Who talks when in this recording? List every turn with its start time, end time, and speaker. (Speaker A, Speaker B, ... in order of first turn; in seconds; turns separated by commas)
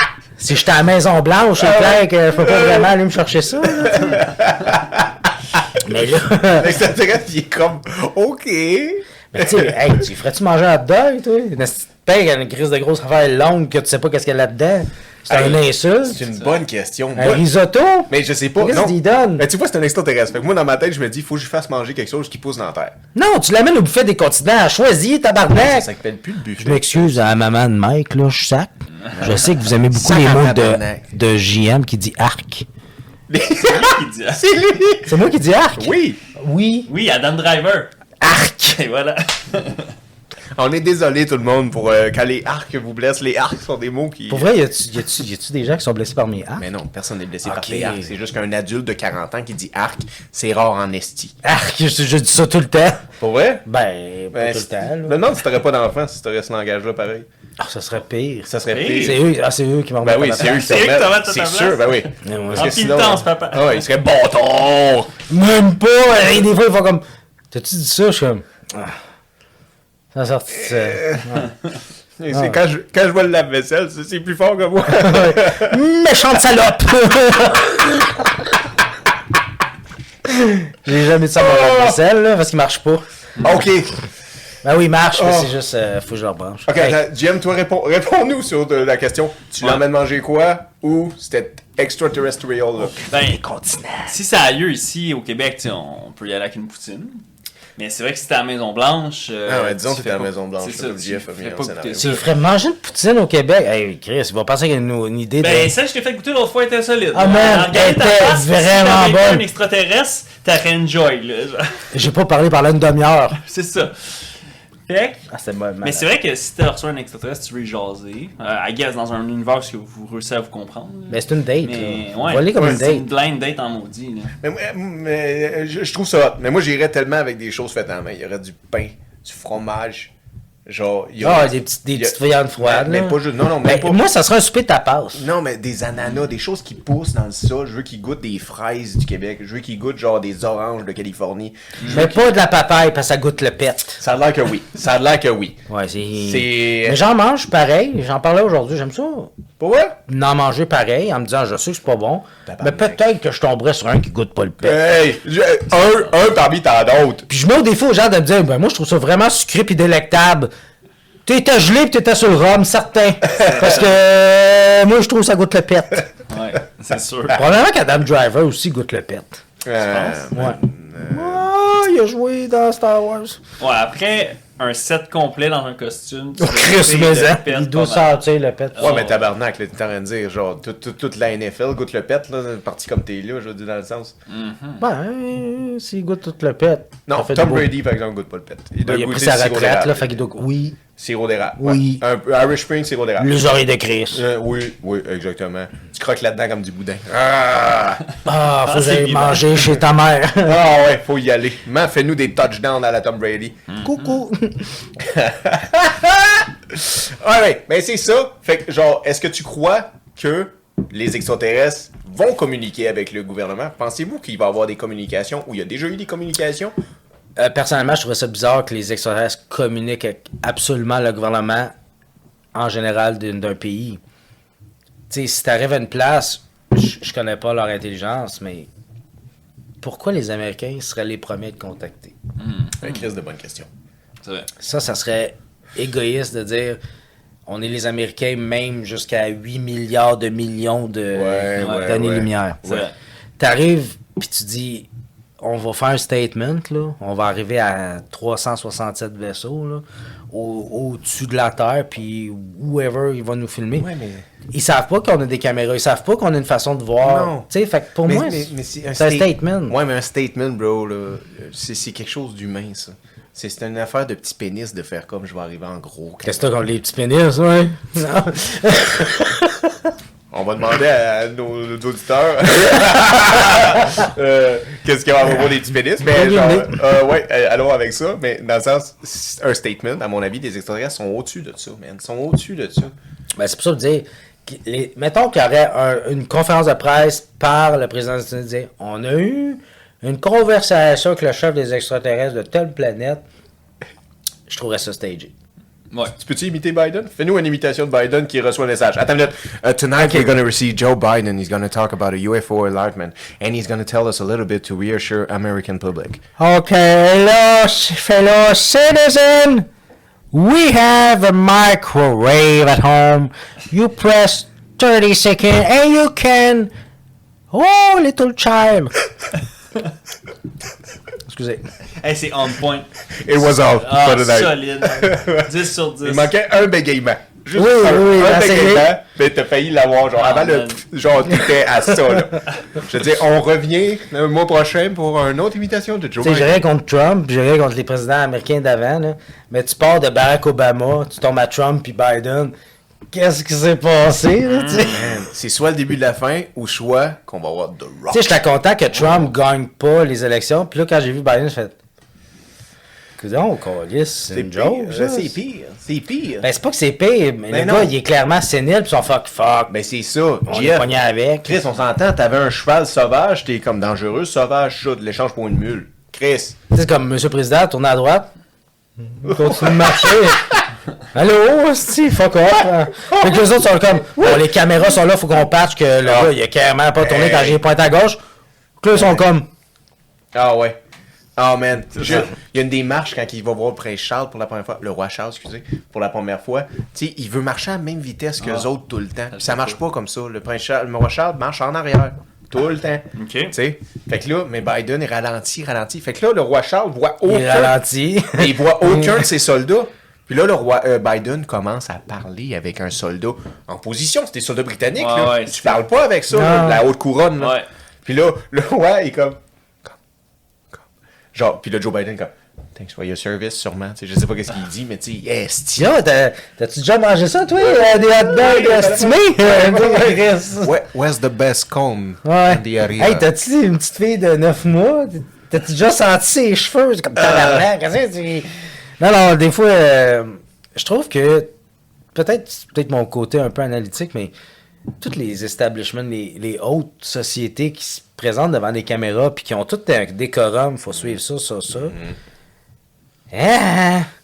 Speaker A: 0.4-4.2, Speaker B: 1.6-2.9, Speaker B: 3.6-5.3, Speaker A: 5.8-6.7, Speaker B: 6.5-10.0, Speaker A: 9.3-16.3, Speaker B: 15.3-17.5, Speaker C: 16.3-16.6, Speaker A: 17.2-19.5, Speaker B: 18.1-22.9, Speaker A: 23.1-25.9, Speaker B: 25.5-27.2, Speaker A: 26.6-32.7, Speaker B: 29.2-31.1, Speaker B: 33.3-35.2, Speaker C: 33.5-34.4, Speaker A: 35.1-36.9, Speaker B: 35.8-36.2, Speaker C: 36.9-37.9, Speaker A: 38.2-38.8, Speaker C: 38.7-40.0, Speaker B: 40.6-44.5, Speaker A: 44.3-46.7, Speaker B: 46.6-51.4, Speaker A: 47.4-48.1, Speaker A: 51.4-53.1, Speaker B: 53.2-53.6, Speaker A: 53.6-55.2, Speaker B: 54.3-57.3, Speaker A: 57.6-60.8, Speaker B: 58.5-59.3, Speaker C: 58.7-59.2, Speaker B: 60.0-65.2, Speaker C: 60.4-63.8, Speaker A: 62.2-62.8, Speaker A: 65.3-69.0, Speaker A: 70.1-71.5, Speaker B: 70.7-71.2, Speaker B: 72.2-75.8, Speaker A: 72.3-72.6, Speaker A: 74.9-78.3, Speaker A: 80.3-83.1, Speaker B: 81.4-82.0, Speaker B: 83.4-83.9, Speaker A: 84.6-87.0, Speaker B: 85.1-85.5, Speaker B: 86.7-93.1, Speaker A: 93.0-94.2, Speaker C: 93.1-93.4, Speaker C: 94.1-97.2, Speaker C: 97.8-102.2, Speaker B: 99.5-102.2, Speaker A: 102.0-105.8, Speaker C: 105.4-111.9, Speaker A: 107.1-109.4, Speaker A: 111.9-113.4, Speaker C: 113.4-114.3, Speaker C: 114.9-115.2, Speaker A: 115.3-116.1, Speaker C: 115.8-124.3, Speaker A: 121.1-123.0, Speaker B: 124.4-130.1, Speaker B: 130.7-134.0, Speaker A: 131.2-135.3, Speaker B: 135.2-142.3, Speaker C: 141.8-142.1, Speaker A: 141.9-144.0, Speaker B: 144.0-145.6, Speaker A: 145.7-149.3, Speaker B: 146.2-147.0, Speaker B: 149.6-150.0, Speaker A: 150.1-154.8, Speaker B: 152.5-153.0, Speaker B: 154.6-157.3, Speaker A: 157.3-160.5, Speaker A: 161.3-166.1, Speaker B: 163.3-163.8, Speaker C: 163.4-163.9, Speaker C: 166.3-167.5, Speaker A: 167.3-169.4, Speaker B: 169.6-171.5, Speaker C: 169.8-170.3, Speaker A: 170.3-173.4, Speaker C: 173.6-178.2, Speaker A: 176.4-179.0, Speaker C: 178.8-179.2, Speaker B: 178.8-184.2, Speaker C: 184.3-184.8, Speaker A: 184.8-187.7, Speaker B: 187.1-190.2, Speaker A: 188.9-190.8, Speaker B: 191.0-193.5, Speaker A: 191.6-192.0, Speaker A: 193.2-194.2, Speaker B: 194.1-198.0, Speaker A: 198.2-200.6, Speaker C: 198.7-199.8, Speaker B: 200.4-203.6, Speaker C: 203.7-204.2, Speaker A: 203.8-204.7, Speaker B: 205.0-216.7, Speaker A: 217.4-221.7, Speaker A: 222.5-224.0, Speaker A: 225.1-228.7, Speaker A: 229.8-232.1, Speaker C: 232.4-233.1, Speaker B: 232.8-233.7, Speaker C: 234.2-234.5, Speaker A: 234.6-236.8, Speaker A: 237.5-242.7, Speaker B: 241.1-242.8, Speaker C: 241.6-242.0, Speaker C: 242.6-242.9, Speaker A: 243.4-244.9, Speaker A: 245.4-253.9, Speaker B: 253.8-254.2, Speaker A: 254.5-259.8, Speaker B: 257.0-257.5, Speaker B: 258.1-266.4, Speaker A: 266.2-269.8, Speaker B: 270.3-282.9, Speaker A: 276.0-276.8, Speaker A: 283.4-293.2, Speaker A: 294.5-295.3, Speaker B: 296.2-306.2, Speaker A: 300.0-300.3, Speaker A: 306.4-309.7, Speaker A: 310.3-316.7, Speaker A: 317.5-318.9, Speaker A: 321.3-321.6, Speaker C: 322.0-326.3, Speaker B: 323.2-336.6, Speaker A: 327.6-329.0, Speaker C: 330.2-330.8, Speaker A: 336.2-342.5, Speaker A: 343.1-344.9, Speaker C: 344.5-345.1, Speaker B: 344.9-348.4, Speaker A: 348.1-351.8, Speaker B: 348.9-349.3, Speaker A: 353.2-355.4, Speaker B: 354.3-356.5, Speaker A: 356.4-359.7, Speaker B: 357.5-357.9, Speaker B: 359.7-366.6, Speaker A: 360.5-361.6, Speaker A: 366.7-368.3, Speaker A: 369.1-370.6, Speaker B: 369.2-370.3, Speaker A: 371.1-378.2, Speaker B: 374.2-374.4, Speaker B: 376.0-376.3, Speaker B: 377.0-377.6, Speaker A: 378.8-379.5, Speaker B: 378.9-379.2, Speaker B: 380.3-380.8, Speaker B: 381.4-397.8, Speaker C: 389.3-389.7, Speaker C: 393.1-393.5, Speaker A: 397.2-399.2, Speaker B: 398.4-409.9, Speaker C: 405.0-405.8, Speaker A: 406.3-406.8, Speaker C: 407.4-407.7, Speaker B: 411.3-415.9, Speaker A: 415.8-420.7, Speaker B: 417.7-423.3, Speaker A: 422.2-431.5, Speaker B: 427.2-427.6, Speaker A: 432.1-434.3, Speaker A: 435.0-442.0, Speaker B: 441.8-442.2, Speaker A: 443.3-444.1